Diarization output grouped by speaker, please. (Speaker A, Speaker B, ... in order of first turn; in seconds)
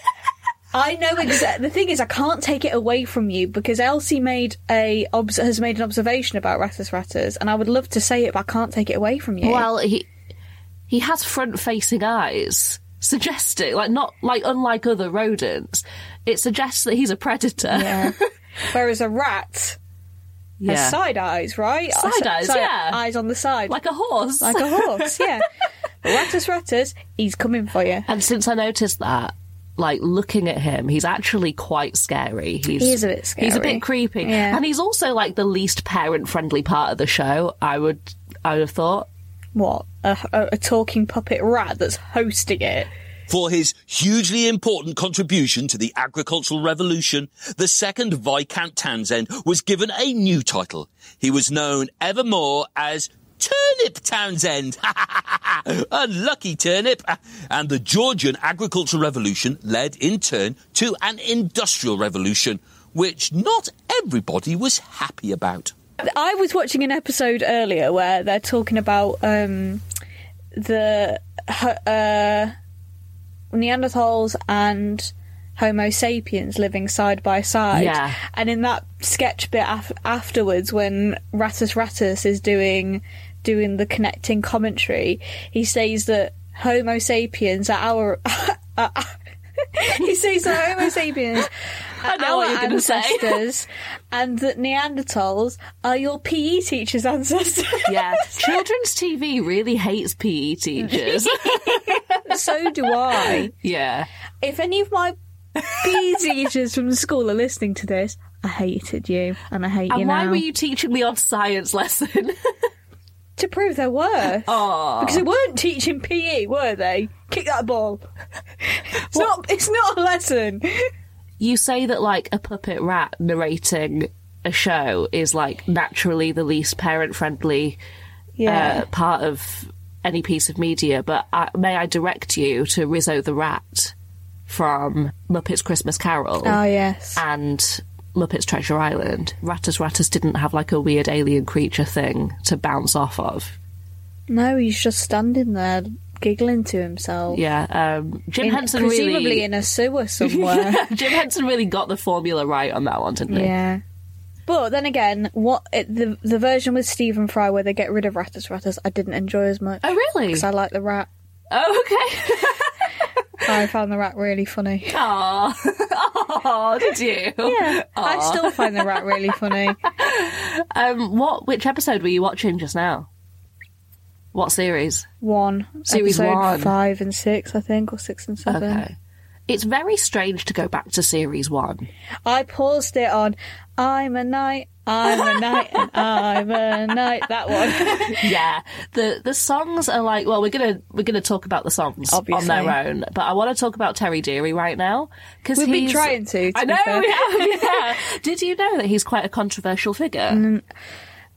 Speaker A: 0.7-9.7, 17.7-18.2, 18.7-19.8, 20.7-23.8, 24.4-25.5, 26.0-28.1, 32.8-34.6, 39.5-42.9, 66.0-69.8, 70.6-72.5, 73.5-89.1, 89.8-91.5, 92.0-98.6, 100.8-103.5, 104.4-105.2, 105.7-110.4, 113.4-118.0, 118.8-120.9, 128.4-128.9, 136.4-137.2, 144.3-147.4, 148.4-150.9, 153.3-153.8, 154.5-161.1, 163.4-165.0, 167.4-169.8, 175.2-178.8, 182.2-188.3, 192.1-192.8, 195.6-197.8, 200.3-200.6
Speaker B: 9.4-10.1, 10.9-18.2, 20.6-21.0, 22.0-23.0, 23.7-25.3, 28.1-39.1, 77.7-78.2, 92.0-93.4, 97.9-104.1, 109.9-112.6, 114.5-115.3, 121.4-127.8, 128.5-133.9, 134.5-136.6, 137.2-143.6, 147.3-149.5, 150.2-153.5, 159.8-160.5, 161.5-162.9, 164.9-168.9, 169.9-173.1, 174.3-175.1, 175.9-176.7, 178.5-178.9, 179.5-181.9, 185.2-185.9, 187.7-200.4
Speaker C: 43.3-65.7